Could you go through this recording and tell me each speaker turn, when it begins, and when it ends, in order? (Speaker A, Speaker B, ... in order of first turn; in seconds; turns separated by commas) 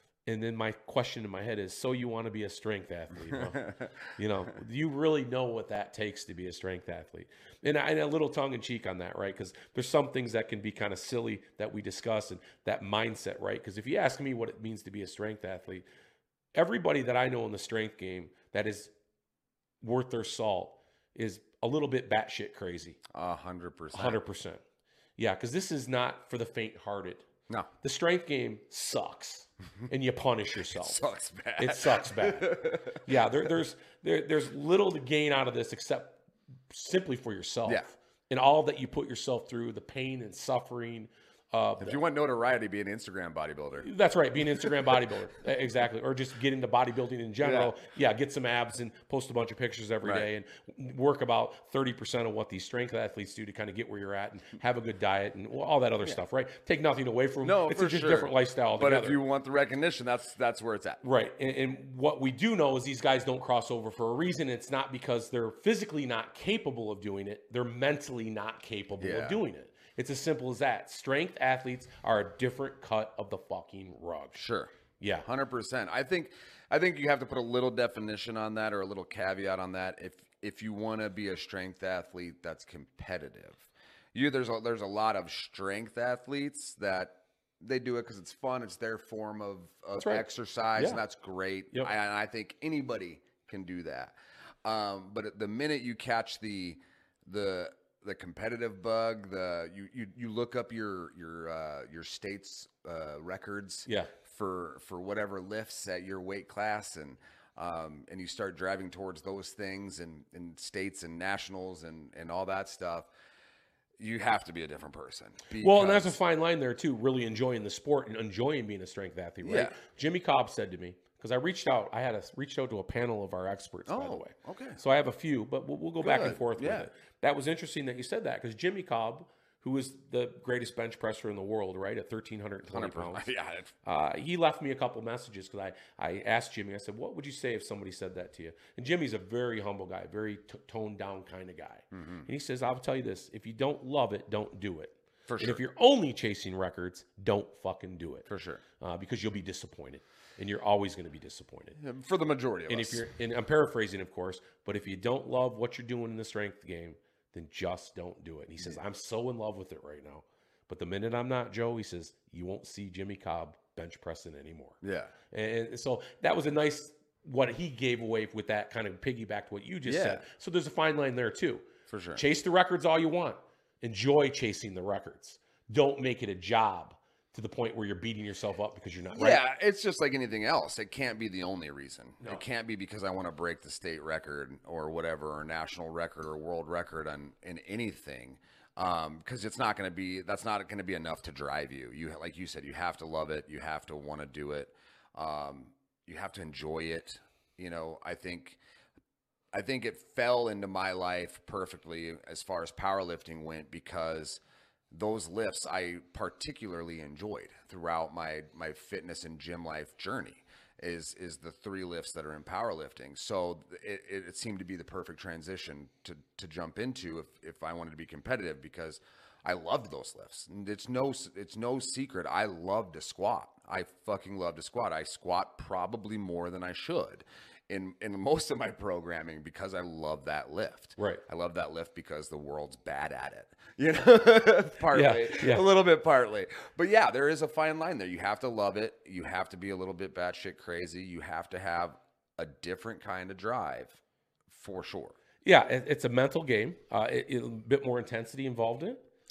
Speaker A: 0.2-15.8, Speaker B: 3.3-3.9, Speaker A: 16.5-18.9, Speaker A: 19.8-23.0, Speaker B: 23.1-24.2, Speaker A: 23.9-24.6, Speaker A: 25.2-27.3, Speaker A: 27.8-31.0, Speaker B: 30.7-33.0, Speaker A: 31.6-36.2, Speaker A: 36.7-42.0, Speaker B: 41.8-43.9, Speaker A: 43.8-59.2, Speaker B: 47.4-47.7, Speaker B: 50.0-50.3, Speaker B: 57.4-61.0, Speaker A: 61.0-74.4, Speaker B: 69.0-69.4, Speaker B: 74.3-74.7, Speaker A: 75.0-75.3, Speaker B: 75.2-113.1, Speaker A: 90.0-90.2, Speaker A: 90.8-91.0, Speaker A: 103.9-104.1, Speaker B: 114.0-116.2, Speaker A: 115.6-133.2, Speaker B: 119.4-119.8, Speaker B: 123.9-124.8, Speaker B: 126.0-126.9, Speaker B: 132.7-133.7, Speaker A: 133.8-148.3, Speaker B: 141.9-142.3, Speaker B: 145.3-145.6, Speaker B: 148.3-148.6, Speaker A: 148.8-151.8, Speaker B: 151.8-153.0, Speaker A: 152.7-164.8, Speaker B: 164.8-165.1, Speaker A: 165.3-179.4, Speaker B: 169.8-170.2, Speaker B: 171.9-172.2, Speaker B: 179.1-198.6, Speaker B: 199.5-244.0, Speaker A: 234.9-235.7, Speaker B: 244.5-245.2, Speaker A: 245.4-249.0